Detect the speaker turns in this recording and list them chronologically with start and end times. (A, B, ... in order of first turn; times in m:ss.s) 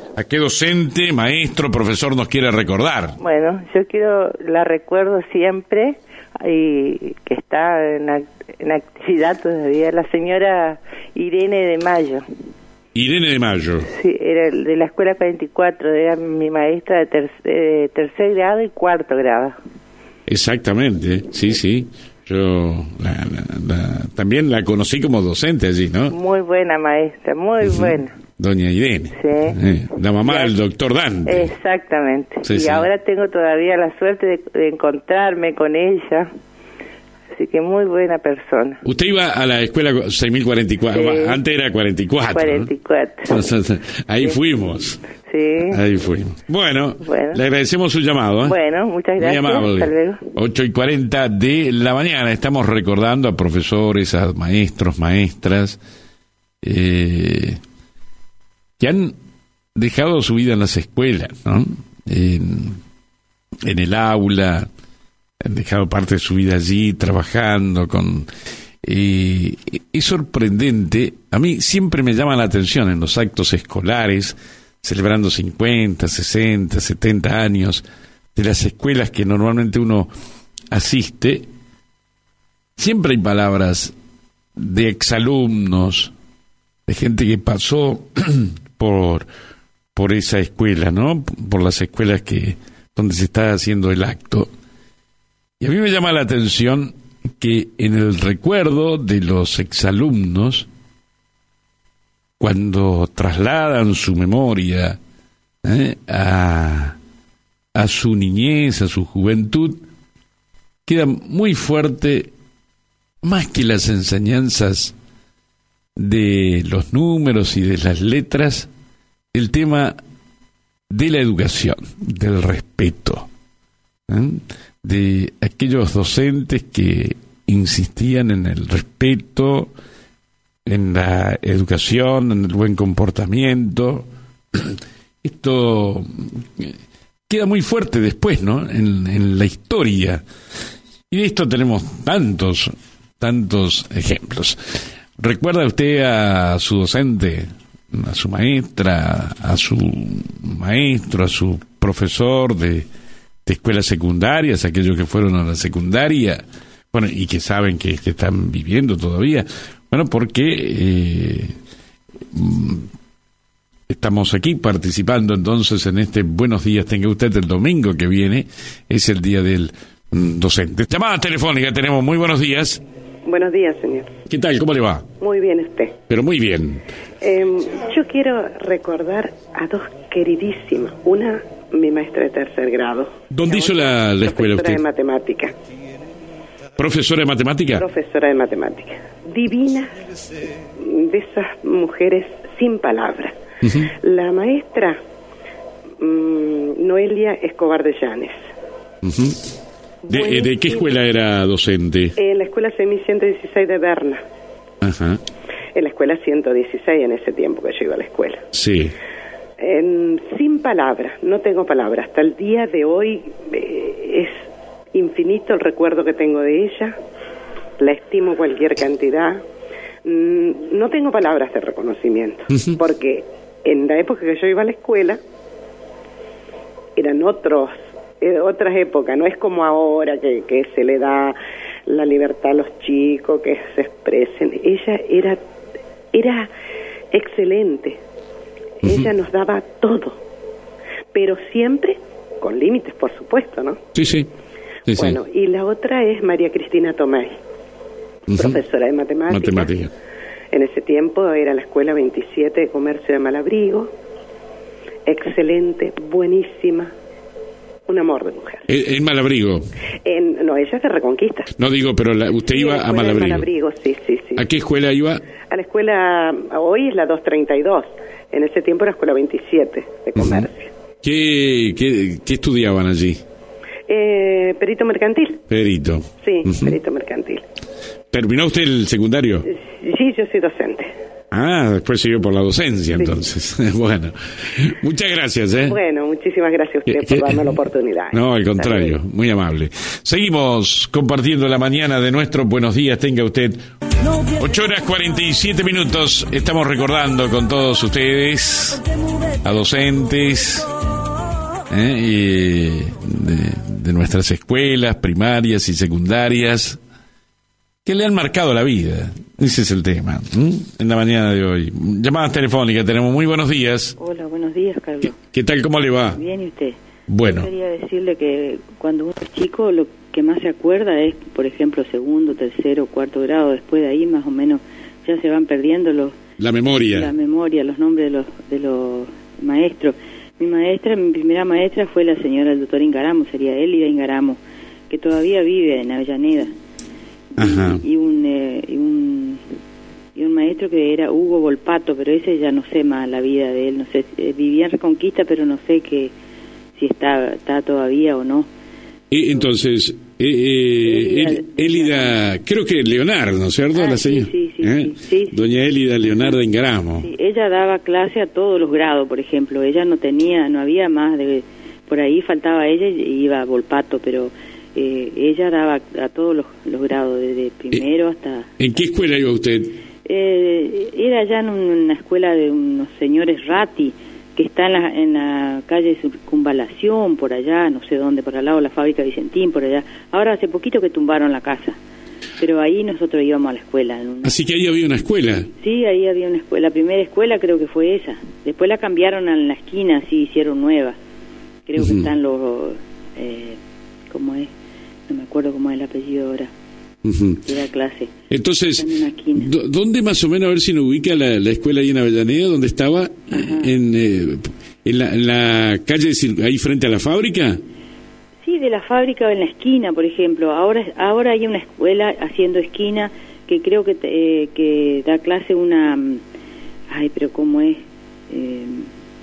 0:00.2-0:03.2 A
0:03.2-0:12.2 B
0:13.0-0:13.9 A
0:13.9-0:19.6 B
0:20.3-0:26.2 A
0:26.1-0:28.1 B
0:27.6-0:31.5 A
0:29.2-0:29.6 B
0:30.2-0:30.5 B
0:31.2-0:36.3 B
0:32.4-0:32.9 A
0:37.3-0:38.8 B
0:38.8-0:42.7 A
0:40.9-0:41.4 B
0:42.3-0:43.3 B
0:43.3-0:45.0 A
0:45.3-0:45.8 B
0:45.7-0:48.6 A
0:47.0-0:47.4 B
0:48.4-0:50.2 B
0:49.2-0:55.8 A
0:56.6-0:57.6 A
0:58.8-0:59.2 A
0:59.8-1:02.8 A
1:03.6-1:04.7 A
1:05.4-1:08.3 A
1:08.8-1:17.8 A
1:18.4-1:20.1 A
1:20.7-1:21.5 A
1:22.8-1:23.9 A
1:24.6-1:26.1 A
1:26.9-1:29.3 A
1:30.0-1:34.5 A
1:35.6-1:40.7 A
1:42.4-1:45.0 A
1:45.6-1:47.0 A
1:47.8-1:49.8 A
1:50.9-1:52.3 A
1:53.2-1:54.9 A
1:56.0-1:58.7 A
1:59.3-2:00.0 A
2:00.9-2:03.3 A
2:04.1-2:09.7 A
2:10.7-2:16.7 A
2:17.3-2:20.2 A
2:21.1-2:32.9 A
2:33.4-2:41.6 A
2:42.3-2:42.9 A
2:43.9-2:52.8 A
2:53.2-2:54.1 C
2:54.3-2:55.1 A
2:55.2-2:56.0 C
2:56.1-2:56.8 A
2:57.2-3:05.5 C
3:03.3-3:04.8 A
3:06.8-3:07.8 A
3:07.8-3:10.0 C
3:10.8-3:13.4 C
3:13.6-3:13.9 A
3:13.9-3:15.0 C
3:16.0-3:18.4 C
3:19.0-3:19.5 A
3:20.1-3:20.9 C
3:20.1-3:22.2 A
3:22.2-3:24.2 C
3:24.8-3:25.2 A
3:25.8-3:28.4 C
3:28.5-3:28.9 A
3:29.6-3:37.0 C
3:37.8-3:39.4 C
3:40.0-3:45.2 C
3:42.5-3:42.8 A
3:47.0-3:55.4 C
3:56.1-3:56.5 C
3:57.1-3:58.0 C
3:58.8-4:00.2 C
4:01.1-4:03.8 C
4:03.9-4:04.3 A
4:04.9-4:05.2 A
4:04.9-4:07.4 C
4:08.3-4:08.6 A
4:08.3-4:09.7 C
4:09.3-4:09.9 A
4:10.5-4:13.9 C
4:15.1-4:16.9 C
4:17.9-4:18.7 C
4:18.7-4:19.7 A
4:20.0-4:21.5 C
4:21.6-4:23.5 A
4:22.5-4:24.4 C
4:24.4-4:25.2 A
4:25.5-4:30.7 C
4:30.2-4:30.5 A
4:31.0-4:33.2 A
4:33.9-4:35.4 C
4:35.5-4:36.7 A
4:36.2-4:37.4 C
4:38.1-4:39.5 A
4:39.5-4:40.9 C
4:41.3-4:45.8 A
4:45.6-4:49.0 C
4:46.9-4:47.6 A
4:48.1-4:53.6 A
4:54.3-4:58.8 A
4:59.4-5:00.7 A
5:01.7-5:06.8 A
5:07.8-5:14.0 A
5:14.0-5:15.2 D
5:15.2-5:16.2 A
5:16.2-5:16.8 D
5:17.1-5:17.5 A
5:17.4-5:26.2 D
5:26.4-5:27.1 A
5:26.9-5:34.4 D
5:34.9-5:36.5 D
5:37.4-5:37.8 A
5:37.4-5:39.4 D
5:40.2-5:46.1 D
5:46.8-5:48.5 D
5:49.1-5:57.1 A
5:50.8-5:52.3 D
5:53.7-5:55.4 D
5:57.0-6:08.5 D
6:08.6-6:09.7 A
6:10.0-6:21.8 D
6:22.4-6:24.4 D
6:24.2-6:25.5 A
6:25.6-6:31.0 D
6:31.7-6:33.6 D
6:31.8-6:32.1 A
6:34.1-6:34.5 D
6:35.1-6:36.5 D
6:37.0-6:37.4 A
6:37.4-6:38.1 D
6:38.3-6:47.6 A
6:38.8-6:39.5 D
6:43.3-6:43.7 D
6:48.4-6:56.2 D
6:56.9-6:58.9 D